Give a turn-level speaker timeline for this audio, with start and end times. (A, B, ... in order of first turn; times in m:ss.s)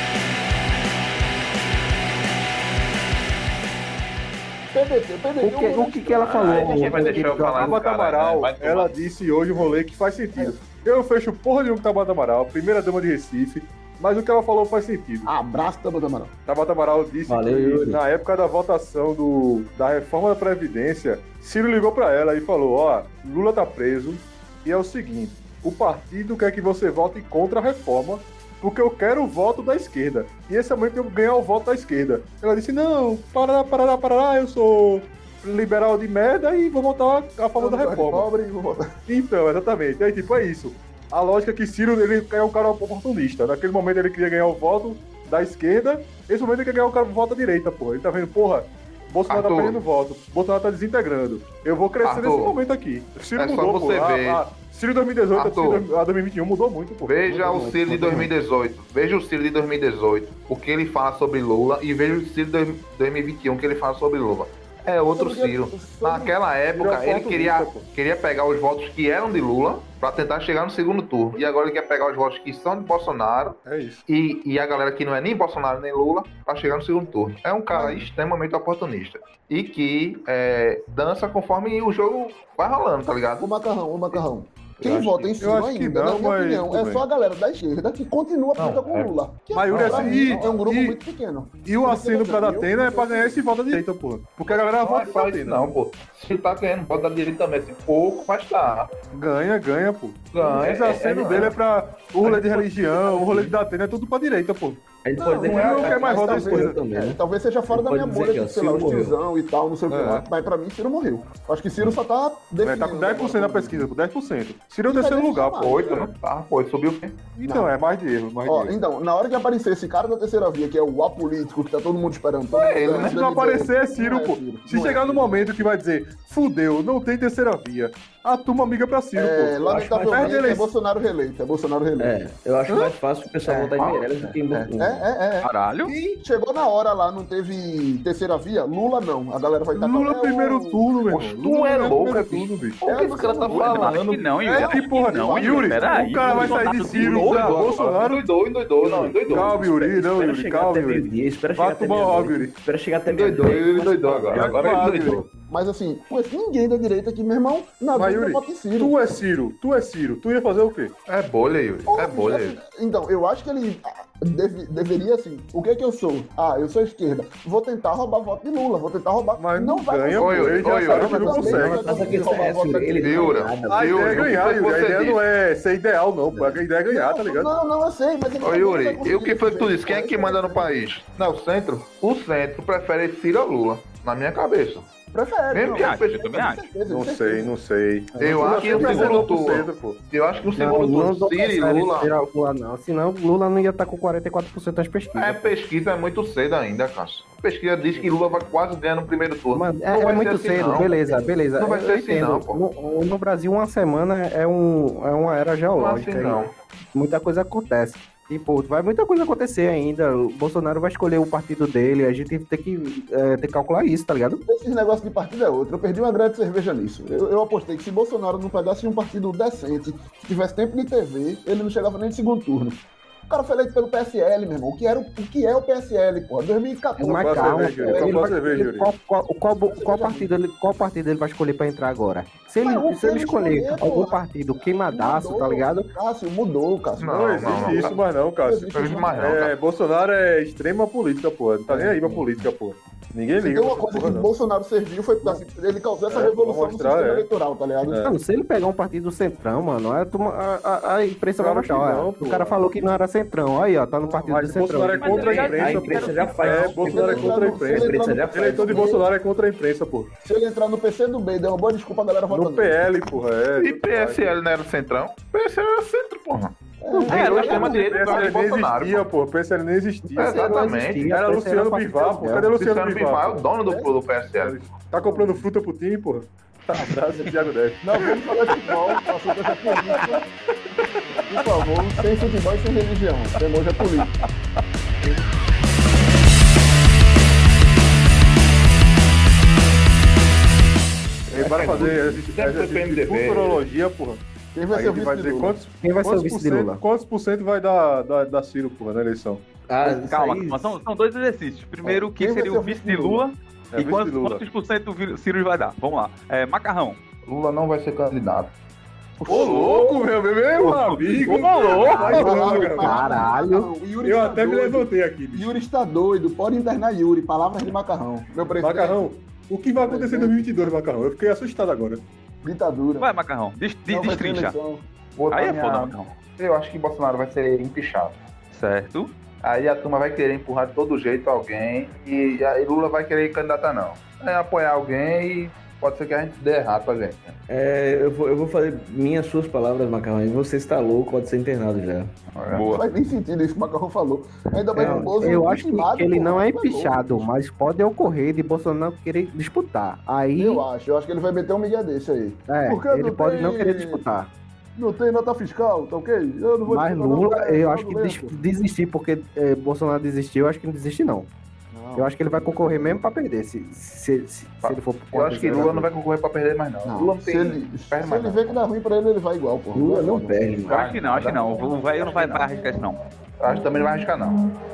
0:04.7-0:07.4 A
0:05.4-0:07.8 B
0:06.2-0:09.0 C
0:07.5-0:15.3 D
0:15.2-0:16.3 A
0:16.5-0:38.3 D
0:17.3-0:18.0 E
0:37.6-0:38.9 A
0:39.1-0:57.5 D
0:49.3-0:49.8 C
0:52.0-0:52.6 C
0:53.4-0:54.4 C
0:55.4-0:55.9 C
0:57.0-1:23.5 C
0:57.3-0:58.3 E
1:05.1-1:06.4 A
1:06.8-1:07.9 D
1:13.6-1:14.0 D
1:17.7-1:18.1 A
1:23.4-1:33.8 A
1:24.8-1:25.5 C
1:25.4-1:27.0 D
1:28.6-1:29.1 C
1:29.5-1:31.0 D
1:29.7-1:30.6 C
1:31.6-1:35.7 D
1:34.8-1:38.9 C
1:39.1-1:44.8 D
1:40.3-1:41.6 C
1:43.1-1:43.5 E
1:45.0-1:47.2 E
1:45.2-1:53.9 A
1:45.4-1:46.6 C
1:45.5-1:46.8 D
1:47.7-1:49.2 E
1:49.9-1:50.2 D
1:52.6-1:55.9 D
1:54.9-1:56.1 A
1:55.6-1:57.3 C
1:57.3-1:58.7 D
1:57.5-1:57.7 A
1:58.4-2:05.5 A
2:02.5-2:03.2 C
2:03.0-2:10.7 D
2:09.2-2:12.2 A
2:12.0-2:15.1 E
2:12.7-2:12.9 A
2:13.5-2:20.8 A
2:13.8-2:14.1 C
2:15.4-2:16.0 F
2:19.7-2:22.8 D
2:21.1-2:24.6 C
2:22.8-2:24.0 A
2:23.5-2:27.7 F
2:24.4-2:28.2 D
2:24.5-2:26.4 A
2:26.3-2:29.6 C
2:28.9-2:32.5 D
2:29.3-2:34.6 E
2:33.1-2:35.3 C
2:34.3-2:35.1 D
2:34.4-2:39.0 A
2:37.9-2:40.9 D
2:41.1-2:42.6 C
2:41.9-2:53.4 A
2:49.4-2:52.2 D
2:50.2-2:51.4 C
2:51.3-2:54.4 E
2:51.9-2:52.4 B
2:53.0-2:55.2 C
2:53.6-2:57.5 D
2:56.3-2:56.6 E
2:56.9-3:00.7 A
2:58.4-3:04.9 C
3:05.1-3:07.5 A
3:05.5-3:06.4 C
3:05.7-3:06.7 F
3:06.9-3:10.0 D
3:08.1-3:09.3 B
3:08.2-3:12.1 C
3:08.7-3:09.2 A
3:10.6-3:15.5 B
3:15.1-3:22.6 C
3:19.5-3:26.4 B
3:25.8-3:26.5 C
3:27.0-3:34.4 B
3:34.5-3:48.6 A
3:47.0-3:55.9 B
3:47.0-3:48.9 D
3:49.7-3:50.3 A
3:52.6-3:59.2 A
3:57.0-3:58.0 C
3:57.1-4:04.3 D
3:58.7-3:59.6 C
4:01.7-4:02.2 A
4:03.4-4:08.0 A
4:06.1-4:07.3 D
4:07.9-4:08.1 D
4:08.0-4:15.4 B
4:11.4-4:12.6 D
4:14.2-4:20.1 D
4:15.0-4:16.8 F
4:15.2-4:19.0 E
4:16.8-4:19.1 A
4:20.2-4:22.8 A
4:22.3-4:24.3 D
4:23.6-4:26.6 C
4:26.8-4:27.8 A
4:26.9-4:27.3 B
4:27.1-4:28.3 F
4:27.1-4:29.1 C
4:27.2-4:33.4 D
4:30.1-4:32.6 B
4:30.2-4:31.2 C
4:32.6-4:34.6 C
4:33.6-4:33.9 A
4:34.4-4:39.1 D
4:34.9-4:35.5 A
4:37.8-4:40.2 A
4:39.7-4:40.2 D
4:41.1-4:41.4 D
4:41.3-4:44.1 A
4:51.3-4:54.2 D
4:51.4-4:51.9 E
4:51.6-4:53.6 C
4:54.5-4:55.6 A
4:54.7-4:59.4 D
4:55.8-4:56.8 B
4:59.7-5:00.8 E
4:59.8-5:07.0 F
5:01.8-5:03.2 A
5:03.7-5:04.4 D
5:07.3-5:08.5 C
5:09.3-5:10.0 F
5:09.3-5:13.2 D
5:09.3-5:09.6 C
5:09.4-5:09.6 A
5:10.6-5:11.3 C
5:11.0-5:12.6 F
5:11.9-5:19.0 A
5:11.9-5:13.7 B
5:14.0-5:15.6 D
5:18.6-5:22.0 D
5:19.8-5:20.4 A
5:22.4-5:23.1 A
5:23.0-5:24.6 F
5:23.9-5:24.8 A
5:25.2-5:28.2 C
5:25.3-5:26.1 F
5:28.5-5:29.1 F
5:29.4-5:37.4 C
5:37.5-5:42.1 E
5:42.3-5:42.7 C
5:42.5-5:42.8 F
5:42.7-5:47.3 A
5:44.8-5:50.7 B
5:44.8-5:45.3 E
5:50.4-5:54.0 A
5:52.5-5:54.3 B
5:54.8-5:58.4 A
5:56.7-6:01.3 B
6:01.7-6:03.0 A
6:02.0-6:05.9 B
6:04.6-6:08.6 C
6:06.8-6:10.5 A
6:09.7-6:11.0 E
6:10.7-6:11.6 C
6:10.7-6:13.0 F
6:13.4-6:14.4 C